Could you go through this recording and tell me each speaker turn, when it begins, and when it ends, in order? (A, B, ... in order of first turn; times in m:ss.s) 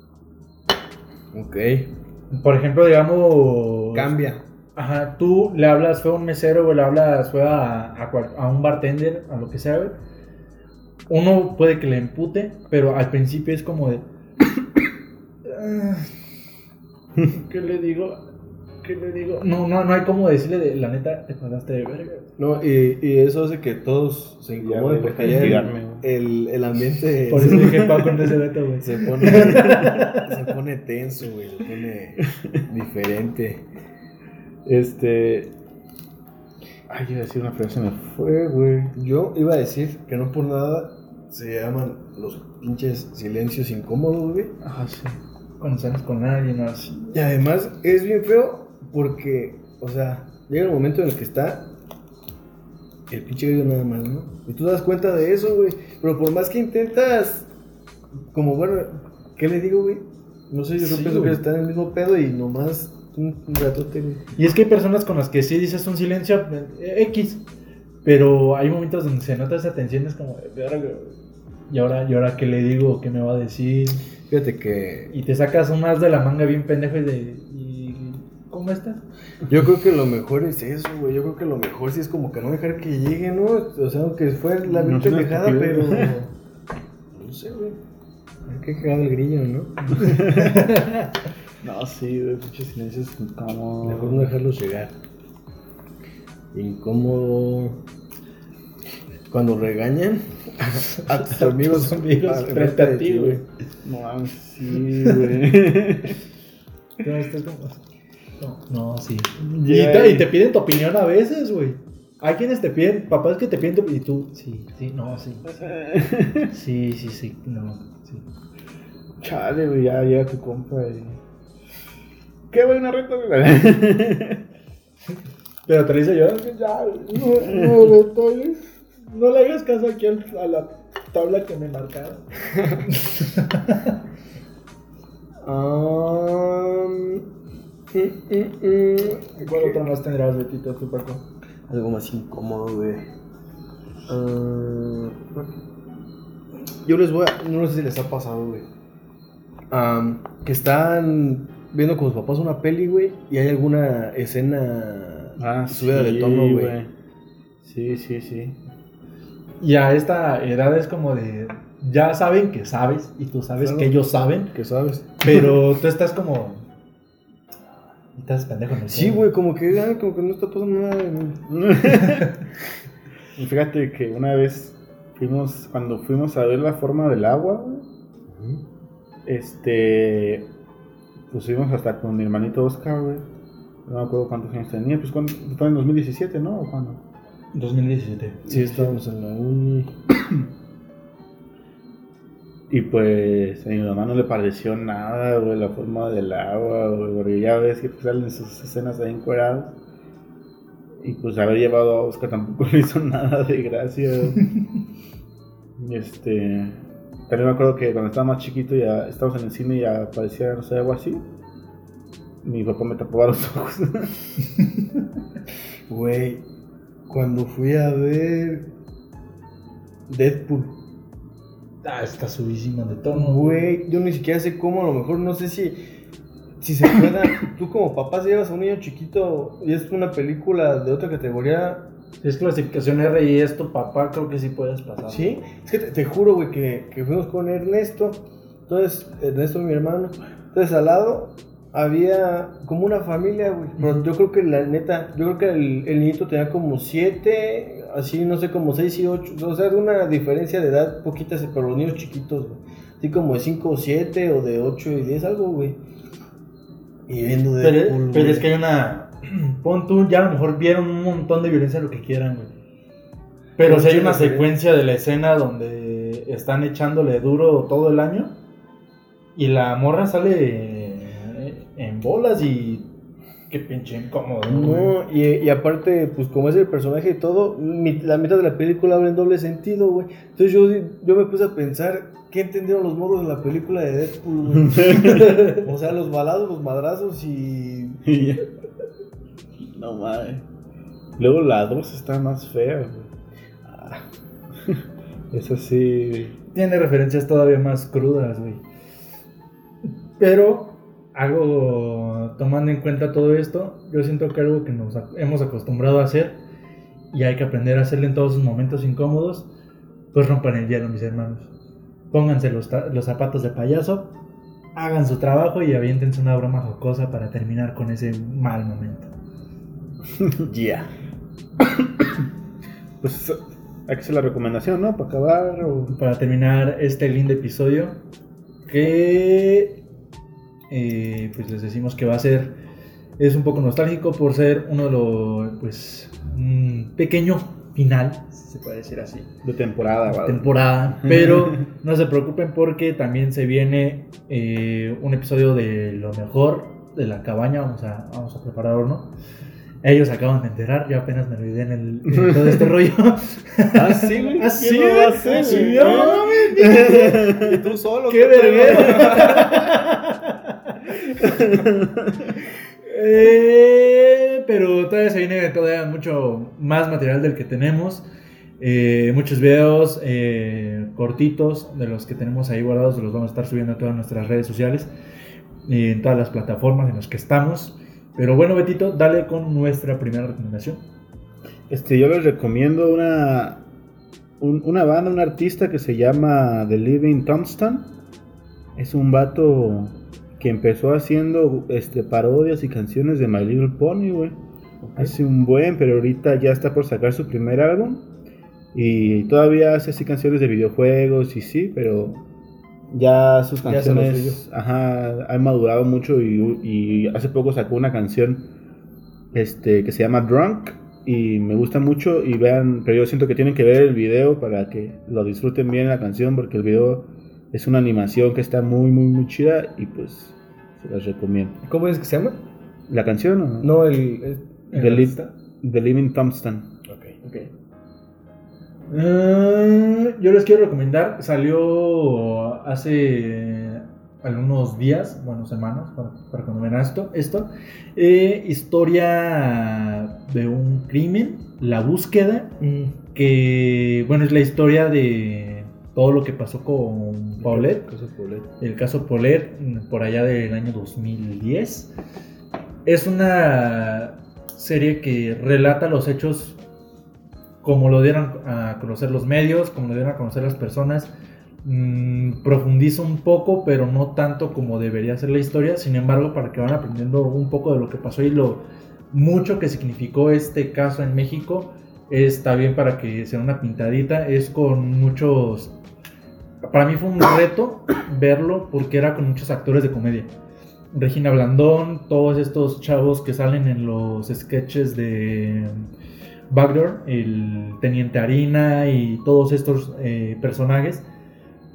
0:01.3-0:01.9 A
0:02.3-0:04.1 B
0:03.9-0:04.4 A
0:04.8-0:10.0 B
0:11.1-0:14.0 B
0:15.5-0:16.1 B
0:17.2-0:18.2 B
0:18.8-0:22.3 B
0:22.4-0:27.8 A
0:24.6-0:26.0 C
0:27.3-0:30.3 B
0:27.4-0:28.2 C
0:28.8-0:33.6 A
0:29.3-0:30.0 C
0:34.7-0:35.5 C
0:36.9-0:38.9 C
0:38.9-0:44.6 A
0:44.6-0:45.2 C
0:45.6-0:47.1 B
0:47.1-0:51.7 A
0:53.1-0:57.5 A
0:58.3-1:04.2 A
1:00.8-1:01.4 B
1:04.4-1:07.4 B
1:08.0-1:11.2 B
1:11.7-1:14.0 B
1:14.3-1:15.1 A
1:15.1-1:19.0 B
1:19.5-1:26.3 A
1:24.7-1:26.1 C
1:27.1-1:27.8 A
1:28.5-1:30.0 A
1:30.0-1:30.7 C
1:30.0-1:31.1 B
1:31.6-1:34.3 C
1:33.8-1:34.9 A
1:36.5-1:37.8 A
1:39.3-1:43.4 A
1:40.9-1:43.4 B
1:43.8-1:46.2 C
1:47.0-1:47.8 B
1:48.4-1:55.5 B
1:49.4-1:50.3 C
1:55.6-1:56.5 C
1:56.5-1:58.2 B
1:59.2-2:01.2 C
2:02.5-2:04.4 C
2:05.7-2:12.2 B
2:12.6-2:12.8 A
2:12.8-2:14.0 B
2:15.4-2:17.2 A
2:17.9-2:19.8 A
2:19.4-2:21.2 B
2:21.7-2:23.0 A
2:24.1-2:25.5 A
2:26.8-2:28.7 A
2:29.7-2:36.8 A
2:35.4-2:36.9 C
2:37.6-2:38.6 C
2:39.6-2:44.5 B
2:43.6-2:43.9 A
2:44.5-2:45.5 A
2:45.2-2:46.6 B
2:48.2-2:49.3 B
2:48.9-2:51.4 A
2:51.5-2:52.4 C
2:53.4-2:57.9 C
2:58.3-2:58.6 A
2:59.3-3:00.5 C
3:01.3-3:03.2 C
3:03.9-3:07.0 C
3:07.5-3:09.0 B
3:08.5-3:09.9 A
3:12.7-3:19.8 C
3:21.0-3:24.4 C
3:25.8-3:31.2 C
3:32.4-3:34.2 C
3:35.9-3:36.4 A
3:37.1-3:38.7 A
3:40.1-3:40.8 A
3:41.8-3:43.6 B
3:43.1-3:45.8 A
3:46.6-3:51.9 A
3:52.2-3:55.4 B
3:55.1-4:15.8 A
4:03.8-4:04.1 B
4:17.1-4:18.5 A
4:17.6-4:22.5 B
4:23.6-4:28.3 B
4:23.6-4:24.5 A
4:29.4-4:32.9 B
4:33.5-4:35.0 B
4:34.5-4:48.0 A
4:44.6-4:45.3 C
4:44.9-4:45.6 B
4:48.0-4:48.4 C
4:49.6-4:50.4 C
4:51.2-4:53.1 C
4:55.3-4:56.4 C
4:56.5-4:58.6 B
5:00.2-5:06.4 B
5:07.1-5:09.5 B
5:10.1-5:11.5 B
5:12.1-5:14.1 B
5:14.8-5:19.1 B
5:20.4-5:20.9 A
5:23.0-5:26.0 C
5:25.9-5:28.0 B
5:28.7-5:29.8 B
5:30.7-5:32.6 B
5:33.2-5:39.3 B
5:39.4-5:41.6 C
5:39.8-5:49.1 B
5:49.8-5:57.3 B
5:53.8-5:54.6 A
5:54.1-5:57.6 C
5:55.2-5:59.7 A
5:58.1-6:01.6 B
6:01.2-6:02.3 C
6:02.8-6:08.0 B
6:08.6-6:14.9 B
6:15.6-6:20.8 B
6:21.7-6:23.6 C
6:24.4-6:27.9 C
6:28.8-6:34.4 C
6:34.8-6:35.1 A
6:35.0-6:38.1 C
6:38.7-6:42.2 C
6:42.9-6:48.5 C
6:43.6-6:44.4 A
6:49.3-7:01.6 C
7:01.6-7:02.4 A
7:02.9-7:03.8 C
7:03.6-7:05.1 A
7:04.7-7:06.7 C
7:04.7-7:05.3 B
7:06.9-7:07.5 A
7:08.9-7:22.6 B
7:22.6-7:22.9 A
7:23.1-7:27.9 B
7:27.4-7:28.5 A
7:28.6-7:31.9 B
7:32.9-7:36.6 B
7:37.6-7:41.1 B
7:41.6-7:55.7 B
7:56.6-8:00.3 B
8:00.9-8:05.8 B
8:06.5-8:11.0 B